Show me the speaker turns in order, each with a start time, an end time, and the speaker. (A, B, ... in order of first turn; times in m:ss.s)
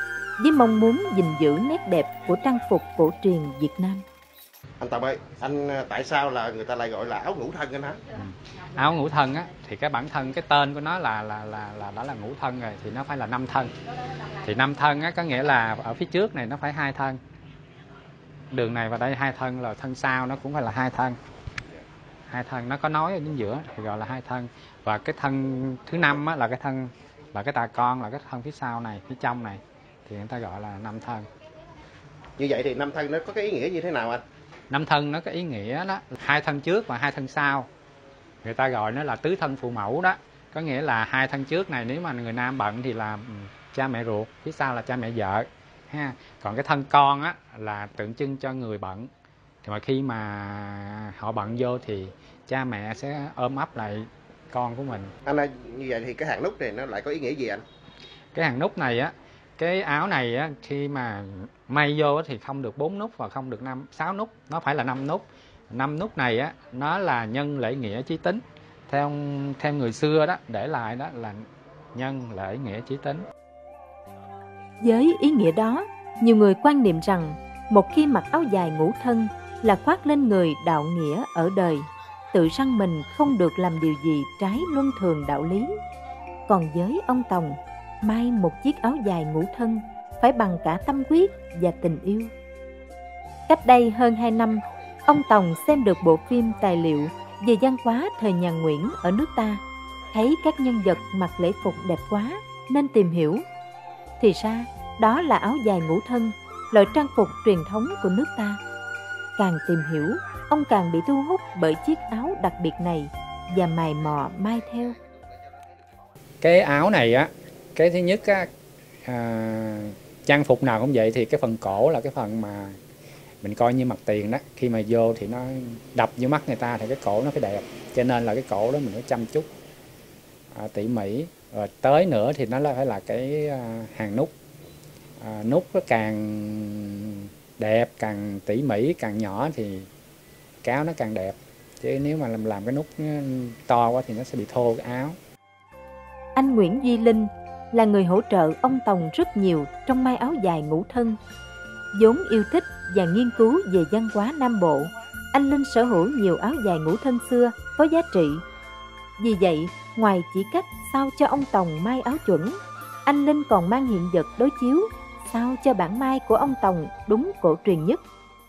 0:00.4-0:04.0 A
0:04.8-0:08.0 B
0:08.1-0:13.7 C
0:14.4-0:17.2 C
0:18.5-0:21.2 C
0:22.3-0:31.3 C
0:32.4-0:34.2 B
0:34.7-0:37.7 C
0:38.4-0:49.1 C
0:49.6-0:55.1 C
0:55.3-0:57.6 B
0:58.3-1:13.3 C
1:14.8-1:25.8 A
1:26.5-1:32.3 A
1:33.5-1:39.6 A
1:40.1-1:43.4 A
1:44.2-1:48.6 A
1:49.4-1:55.0 A
1:56.4-1:58.5 C
1:59.0-2:02.8 C
2:03.4-2:09.5 C
2:10.5-2:14.3 C
2:15.2-2:19.9 C
2:20.6-2:25.2 C
2:26.4-2:31.2 A
2:31.9-2:38.4 A
2:39.2-2:48.0 A